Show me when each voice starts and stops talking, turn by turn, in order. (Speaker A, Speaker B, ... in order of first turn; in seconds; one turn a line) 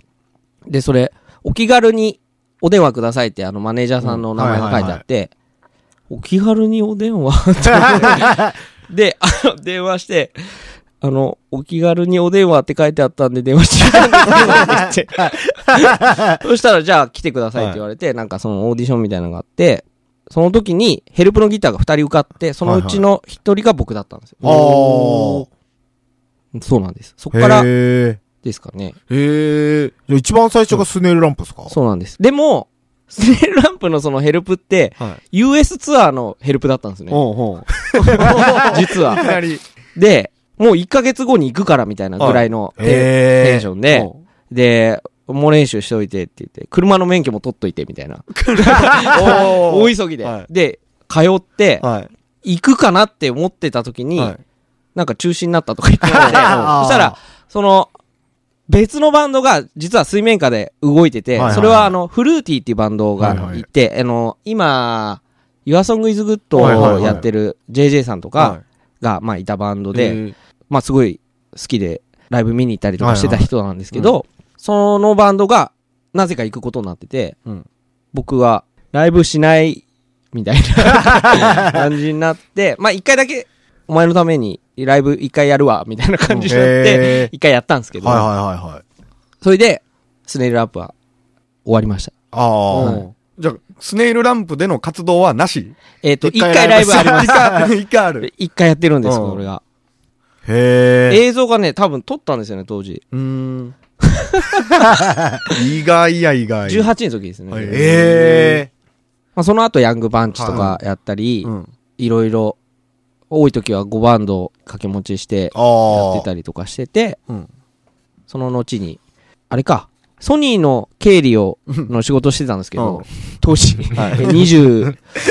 Speaker A: 0.7-5.3
Speaker B: 4.3-5.0
Speaker A: 6.1-10.4
Speaker B: 7.9-8.5
Speaker A: 11.0-24.6
Speaker B: 15.9-16.4
Speaker B: 22.6-23.0
Speaker C: 24.4-25.4
Speaker B: 24.4-25.4
Speaker A: 26.5-27.7
Speaker B: 27.3-28.2
Speaker A: 28.4-28.9
Speaker C: 29.1-29.9
Speaker B: 30.1-31.7
Speaker A: 31.7-37.2
Speaker C: 37.1-39.6
Speaker A: 37.9-39.4
Speaker B: 38.2-39.3
Speaker A: 39.9-51.8
Speaker C: 42.2-42.4
Speaker B: 42.8-43.7
Speaker C: 43.9-44.2
Speaker C: 48.3-50.5
Speaker C: 51.8-52.1
Speaker A: 52.4-54.3
Speaker A: 54.9-57.9
Speaker C: 56.1-56.8
Speaker B: 56.1-57.1
Speaker A: 58.7-77.3
Speaker B: 61.4-61.9
Speaker C: 61.4-61.8
Speaker B: 63.2-63.6
Speaker C: 63.2-63.5
Speaker C: 66.5-67.2
Speaker B: 66.6-67.2
Speaker C: 69.9-70.3
Speaker B: 73.0-73.5
Speaker A: 78.1-88.3
Speaker B: 80.8-81.8
Speaker B: 86.5-87.3
Speaker B: 88.0-88.8
Speaker A: 89.4-90.9
Speaker A: 91.7-92.1
Speaker B: 92.3-93.0
Speaker C: 92.7-95.7
Speaker A: 92.7-93.0
Speaker A: 96.0-97.6
Speaker B: 96.2-97.7
Speaker C: 96.9-98.3
Speaker A: 98.2-99.6
Speaker C: 99.0-99.4
Speaker B: 100.4-101.2
Speaker A: 101.1-103.0
Speaker C: 103.1-103.7
Speaker A: 104.0-104.8
Speaker B: 104.7-105.5
Speaker C: 105.5-106.9
Speaker A: 106.7-108.0
Speaker C: 107.5-108.7
Speaker B: 107.7-108.7
Speaker A: 109.3-112.6
Speaker B: 110.3-110.6
Speaker C: 110.5-110.8
Speaker C: 111.4-111.7
Speaker A: 113.3-117.2
Speaker B: 115.5-116.3
Speaker A: 118.3-125.0
Speaker C: 122.8-123.0
Speaker C: 123.9-124.5